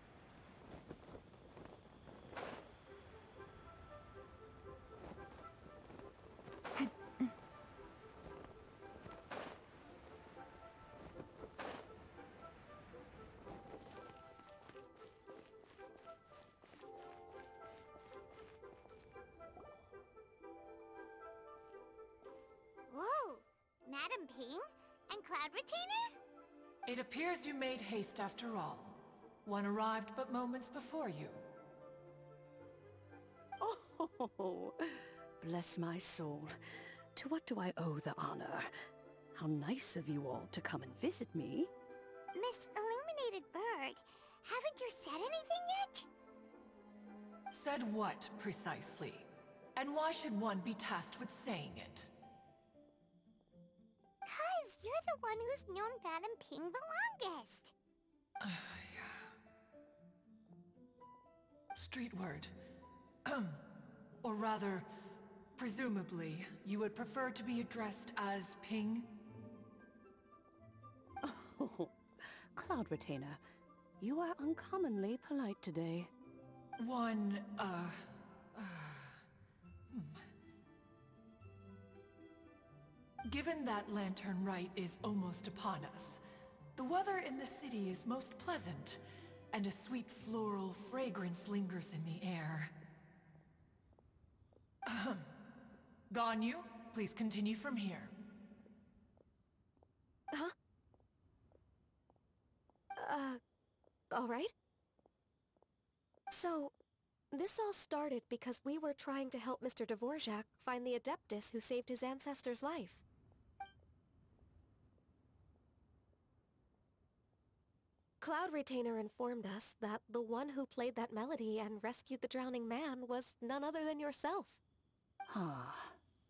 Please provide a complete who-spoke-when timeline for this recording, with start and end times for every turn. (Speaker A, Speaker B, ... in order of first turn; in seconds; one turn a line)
Speaker A: 22.9-26.2
Speaker B: 26.9-31.4
Speaker C: 33.6-36.6
Speaker C: 37.1-38.7
Speaker C: 39.3-41.7
Speaker A: 42.3-46.1
Speaker B: 47.5-52.1
Speaker A: 54.3-57.7
Speaker B: 58.4-59.3
Speaker B: 61.7-62.5
Speaker B: 63.2-63.7
Speaker B: 64.2-64.9
Speaker B: 65.6-69.2
Speaker C: 71.2-72.0
Speaker C: 72.5-73.4
Speaker C: 74.0-76.1
Speaker B: 76.8-79.2
Speaker B: 79.9-80.2
Speaker B: 83.2-86.2
Speaker B: 86.8-89.0
Speaker B: 89.5-92.7
Speaker B: 94.9-95.3
Speaker B: 96.1-98.1
Speaker D: 103.0-103.4
Speaker D: 104.1-104.5
Speaker D: 106.3-106.7
Speaker D: 107.3-113.0
Speaker D: 118.2-124.6
Speaker C: 125.3-126.0